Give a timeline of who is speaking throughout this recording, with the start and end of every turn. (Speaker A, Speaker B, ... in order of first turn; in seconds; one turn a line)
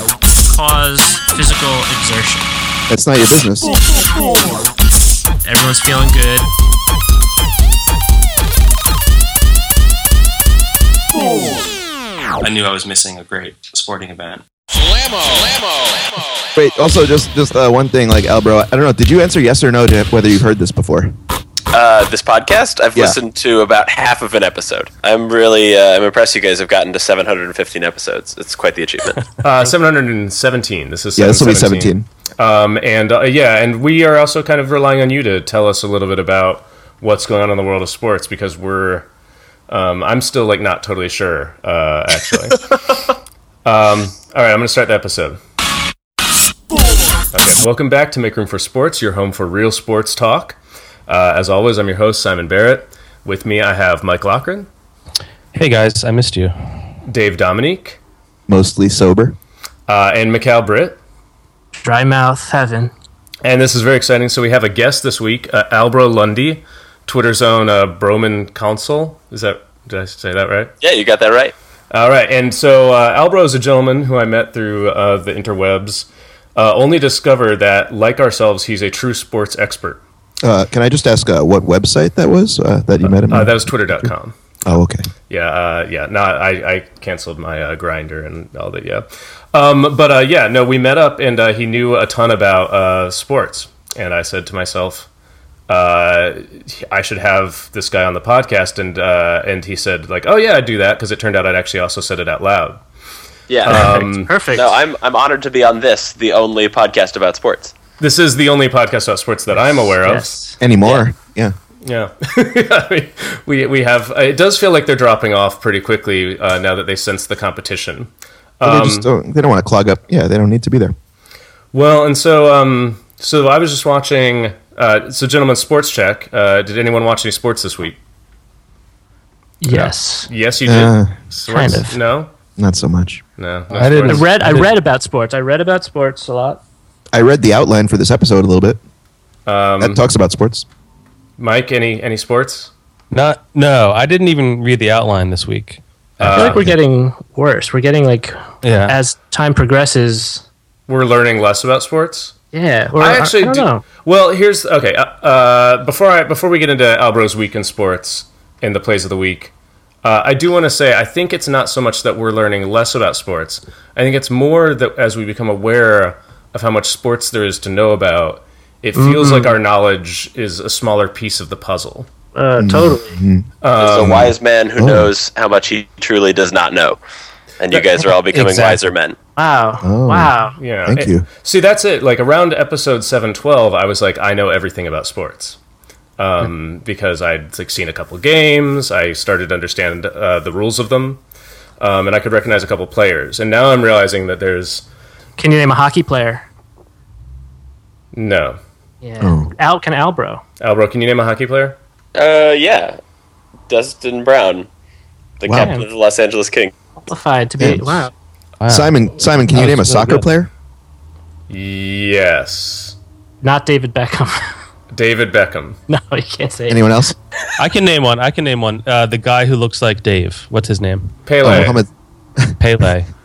Speaker A: 0.5-2.5
Speaker B: 2.9-3.9
Speaker A: 5.4-6.5
Speaker C: 12.4-14.4
Speaker B: 16.6-21.1
Speaker D: 21.7-29.3
Speaker E: 29.4-39.1
Speaker B: 31.1-32.1
Speaker E: 39.7-43.1
Speaker E: 43.6-45.4
Speaker E: 47.3-54.7
Speaker F: 55.5-56.5
Speaker E: 57.0-58.0
Speaker B: 58.5-59.4
Speaker E: 59.9-61.0
Speaker A: 61.8-62.9
Speaker E: 63.4-70.7
Speaker D: 70.8-71.5
Speaker E: 71.9-80.0
Speaker B: 80.4-84.1
Speaker E: 83.1-84.3
Speaker B: 84.6-85.1
Speaker E: 85.3-95.1
Speaker E: 95.7-102.8
Speaker D: 103.5-103.9
Speaker E: 103.6-104.3
Speaker A: 103.7-104.8
Speaker D: 104.5-107.7
Speaker E: 108.0-110.3
Speaker A: 110.0-110.6
Speaker B: 110.6-111.5
Speaker E: 111.8-119.1
Speaker B: 118.6-120.9
Speaker E: 121.7-128.0
Speaker A: 129.6-130.3
Speaker F: 129.7-129.9
Speaker E: 130.3-132.3
Speaker B: 130.6-131.1
Speaker A: 131.5-132.0
Speaker B: 132.6-133.2
Speaker E: 133.4-134.3
Speaker F: 133.7-134.7
Speaker A: 134.1-136.6
Speaker B: 137.1-138.8
Speaker E: 139.4-140.0
Speaker B: 139.8-140.7
Speaker E: 141.4-142.7
Speaker F: 143.1-146.7
Speaker E: 146.2-146.7
Speaker A: 146.3-150.4
Speaker F: 148.6-149.0
Speaker E: 150.9-152.3
Speaker A: 152.5-153.8
Speaker E: 153.0-159.5
Speaker E: 160.0-172.1
Speaker A: 168.9-169.5
Speaker A: 172.3-173.2
Speaker B: 172.6-173.4
Speaker E: 173.6-174.3
Speaker D: 173.8-177.0
Speaker B: 174.8-175.1
Speaker D: 177.6-179.2
Speaker F: 178.2-178.9
Speaker A: 179.4-180.6
Speaker B: 179.8-180.3
Speaker E: 180.6-185.6
Speaker B: 180.8-181.2
Speaker E: 186.2-191.2
Speaker E: 191.8-194.8
Speaker A: 195.4-196.4
Speaker E: 198.1-198.6
Speaker A: 199.0-200.4
Speaker B: 199.2-199.5
Speaker E: 200.6-201.8
Speaker D: 202.1-203.0
Speaker D: 203.7-204.7
Speaker D: 205.4-206.7
Speaker B: 205.4-205.7
Speaker A: 205.6-205.8
Speaker A: 207.1-208.1
Speaker B: 207.6-208.1
Speaker F: 208.6-208.9
Speaker B: 208.7-210.5
Speaker F: 209.5-210.2
Speaker E: 211.5-212.9
Speaker A: 213.4-214.5
Speaker E: 214.9-215.8
Speaker A: 215.9-216.8
Speaker B: 216.7-217.1
Speaker F: 217.6-221.1
Speaker E: 221.2-221.8
Speaker B: 221.4-222.6
Speaker F: 222.6-223.1